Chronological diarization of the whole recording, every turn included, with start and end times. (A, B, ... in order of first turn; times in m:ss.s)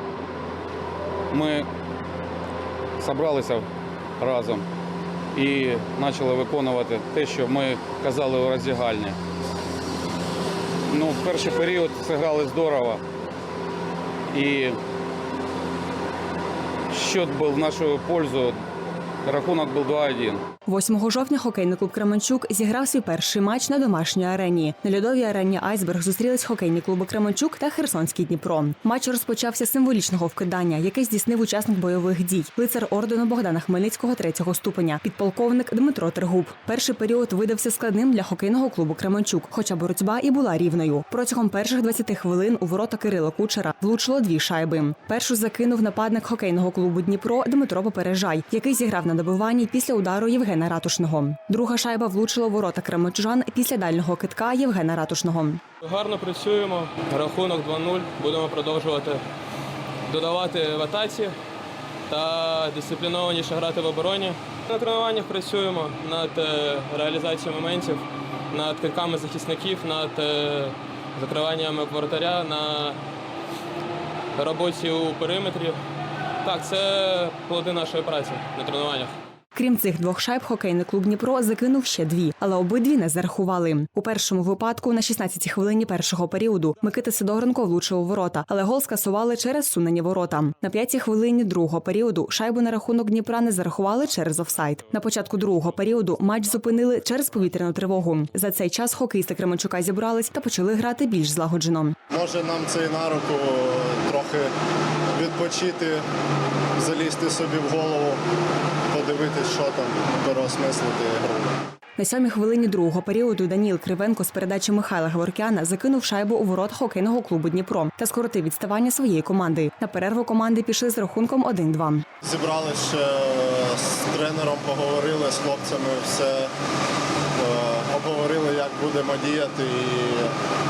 0:01.3-0:01.7 A
0:03.0-0:03.7 A
0:04.2-0:04.6 A
0:05.4-0:09.2 A
0:10.9-0:13.0 A
0:14.3-0:14.8 A
0:16.9-0:18.6 A
0:19.2-0:20.4 A
0:20.7-0:55.6 B
0:55.8-0:59.2 C
1:00.1-1:01.4 C
1:02.1-1:13.0 C
1:14.4-1:15.8 C
1:16.4-1:19.1 C
1:19.6-1:42.0 B
1:42.1-1:44.5 D
1:45.1-1:46.0 D
1:46.8-1:48.2 D
1:48.9-1:51.6 D
1:52.0-2:02.0 B
2:02.2-2:06.5 D
2:07.4-2:10.3 D